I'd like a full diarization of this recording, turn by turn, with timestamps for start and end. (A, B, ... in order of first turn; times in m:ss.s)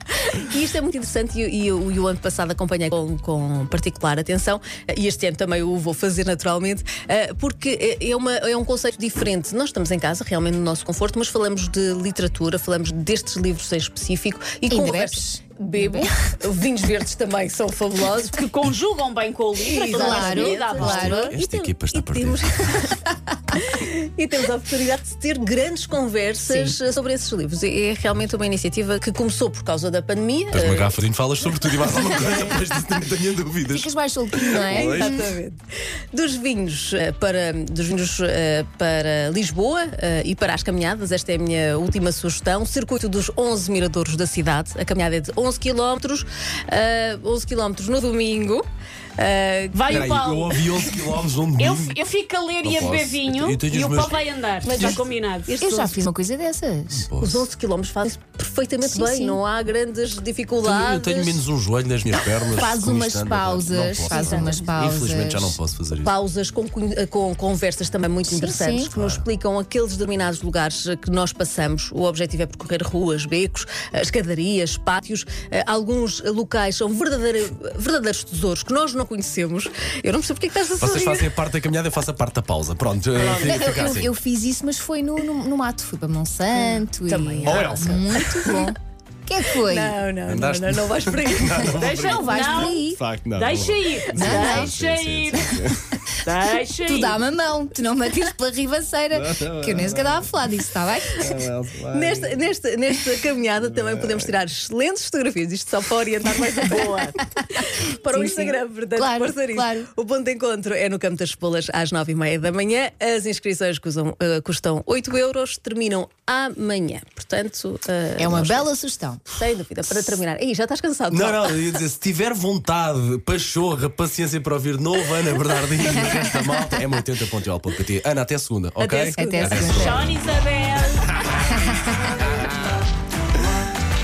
0:00.2-0:18.4 A
0:14.7-0:16.1 B
0:18.3-0:21.3 C
0:19.6-0:30.9 A
0:19.8-0:21.3 B
0:20.8-0:22.5 D
0:26.4-0:26.8 B
0:30.5-0:35.2 D
0:33.7-0:35.3 B
0:34.7-0:35.6 A
0:36.1-0:48.6 A
0:49.2-0:50.0 A
0:49.7-0:51.0 C
0:49.9-0:52.0 D
0:51.6-0:55.6 C
0:52.6-0:54.2 D
0:54.6-0:56.0 A
0:54.7-0:55.0 D
0:55.6-0:57.1 B
0:56.9-0:57.4 D
0:57.2-1:01.4 A
0:58.8-0:59.4 B
1:00.6-1:06.1 D
1:02.1-1:05.6 B
1:04.1-1:04.6 A
1:06.0-1:21.3 A
1:08.3-1:08.9 B
1:08.9-1:09.2 D
1:20.8-1:24.1 D
1:23.2-1:23.9 A
1:23.3-1:30.0 B
1:26.5-1:28.6 A
1:27.4-1:28.2 D
1:29.6-1:31.9 A
1:30.3-1:36.0 D
1:31.8-1:35.6 C
1:32.0-1:33.0 B
1:34.1-1:34.7 B
1:36.2-1:37.2 C
1:36.8-1:41.3 B
1:39.1-1:40.3 D
1:41.2-1:42.4 D
1:41.9-1:58.7 A
1:43.6-1:44.3 D
1:46.7-1:47.1 C
1:48.1-1:49.9 B
1:58.2-1:59.2 B
1:59.3-2:01.5 A
2:01.1-2:10.2 D
2:08.8-2:09.8 A
2:09.1-2:10.0 B
2:09.5-2:11.4 C
2:11.5-2:11.8 B